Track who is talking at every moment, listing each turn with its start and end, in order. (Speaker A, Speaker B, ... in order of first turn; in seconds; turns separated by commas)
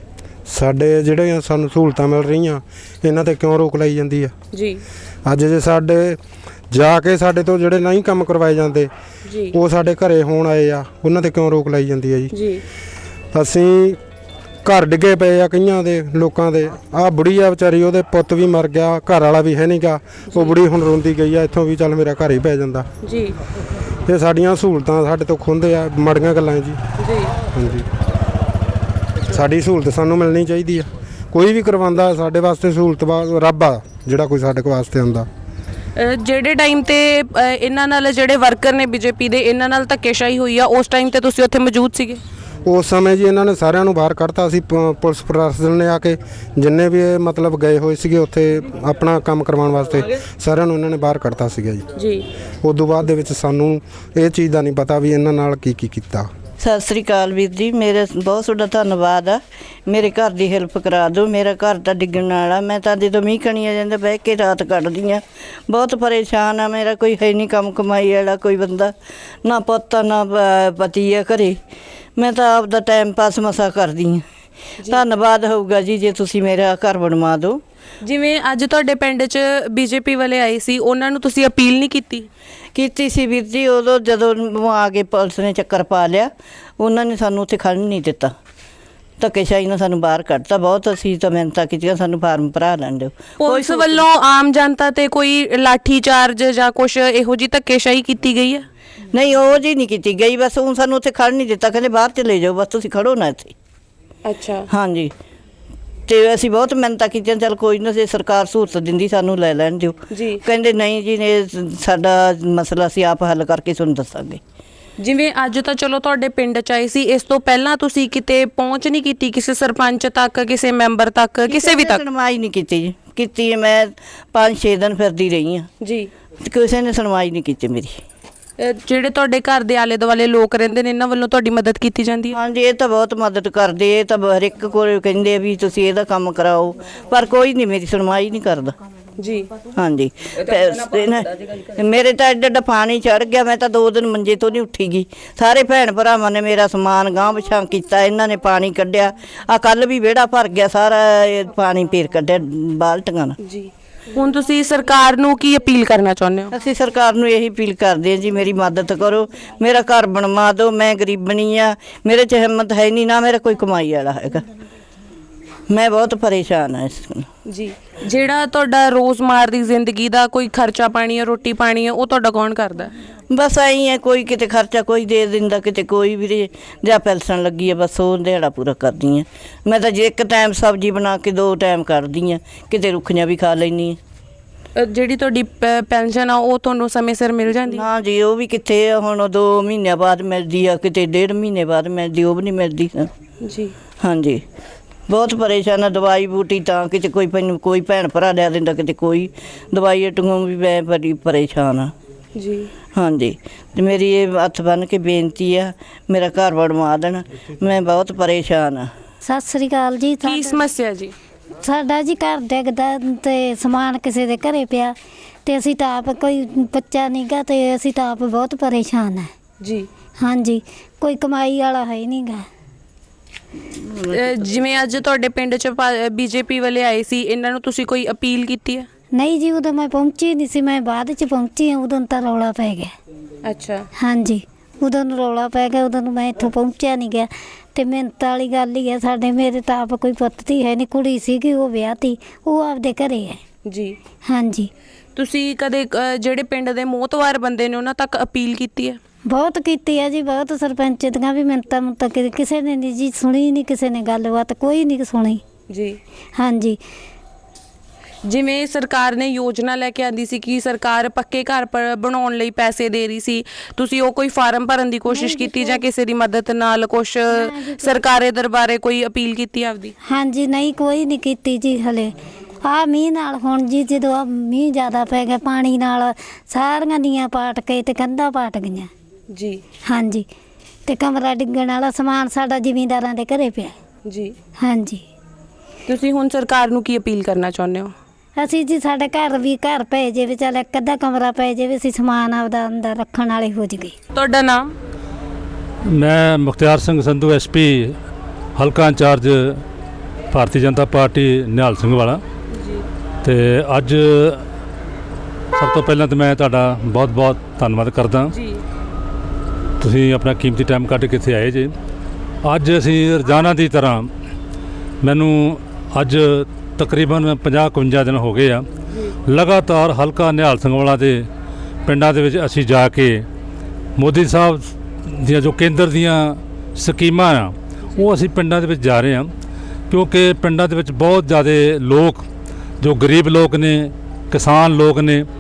Speaker A: 0.5-4.3, Speaker B: 4.5-4.8, Speaker A: 5.2-6.2, Speaker A: 6.7-8.9, Speaker B: 9.3-9.5, Speaker A: 9.5-12.3, Speaker B: 12.3-12.6, Speaker A: 13.3-14.0, Speaker A: 14.7-22.9, Speaker B: 23.0-23.4, Speaker A: 24.1-26.8, Speaker B: 27.0-27.3, Speaker A: 27.5-27.9, Speaker A: 29.3-35.3, Speaker B: 36.0-42.2, Speaker A: 42.7-51.8, Speaker B: 52.0-52.2, Speaker A: 52.6-56.3, Speaker C: 56.6-71.6, Speaker C: 72.2-74.2, Speaker C: 74.9-77.6, Speaker B: 78.0-82.3, Speaker C: 82.8-88.3, Speaker C: 89.2-94.0, Speaker B: 93.4-98.7, Speaker C: 99.1-103.5, Speaker B: 104.3-104.7, Speaker C: 104.7-105.1, Speaker C: 106.1-114.4, Speaker B: 110.1-110.4, Speaker B: 115.0-122.0, Speaker C: 121.5-125.7, Speaker B: 125.8-126.1, Speaker C: 126.4-128.0, Speaker B: 128.6-132.4, Speaker C: 132.3-138.7, Speaker B: 139.2-139.5, Speaker C: 139.7-153.3, Speaker B: 153.5-156.5, Speaker C: 156.5-164.4, Speaker C: 165.7-167.3, Speaker B: 167.5-172.9, Speaker C: 173.3-184.0, Speaker B: 184.8-187.8, Speaker C: 187.7-193.1, Speaker B: 193.4-193.7, Speaker C: 194.0-194.4, Speaker C: 195.1-201.9, Speaker B: 202.3-202.7, Speaker C: 202.9-208.9, Speaker D: 209.2-210.6, Speaker B: 210.2-211.1, Speaker D: 211.6-214.9, Speaker D: 215.5-219.3, Speaker B: 219.6-219.9, Speaker D: 220.2-222.4, Speaker B: 224.1-228.9, Speaker D: 229.1-232.9, Speaker B: 233.4-233.9, Speaker D: 234.0-243.4, Speaker B: 243.7-244.0, Speaker D: 244.3-244.7, Speaker B: 245.2-249.0, Speaker D: 249.3-255.4, Speaker B: 255.7-256.0, Speaker D: 256.4-256.8, Speaker B: 258.3-269.9, Speaker D: 265.1-265.8, Speaker D: 267.3-268.1, Speaker D: 270.1-278.9, Speaker B: 279.3-279.6, Speaker D: 279.9-280.3, Speaker D: 280.9-283.7, Speaker B: 284.1-284.4, Speaker D: 284.6-285.0, Speaker B: 285.9-287.9, Speaker D: 288.4-293.9, Speaker B: 294.1-294.8, Speaker E: 295.9-298.0, Speaker E: 298.6-299.6, Speaker E: 300.3-302.2, Speaker B: 302.5-302.9, Speaker E: 303.2-304.4, Speaker E: 305.6-308.3, Speaker B: 308.3-308.6, Speaker E: 309.8-311.7, Speaker E: 312.4-314.1, Speaker E: 315.0-318.7, Speaker E: 319.3-321.3, Speaker E: 321.9-323.3, Speaker E: 324.0-329.3, Speaker E: 329.9-332.2, Speaker E: 332.8-335.3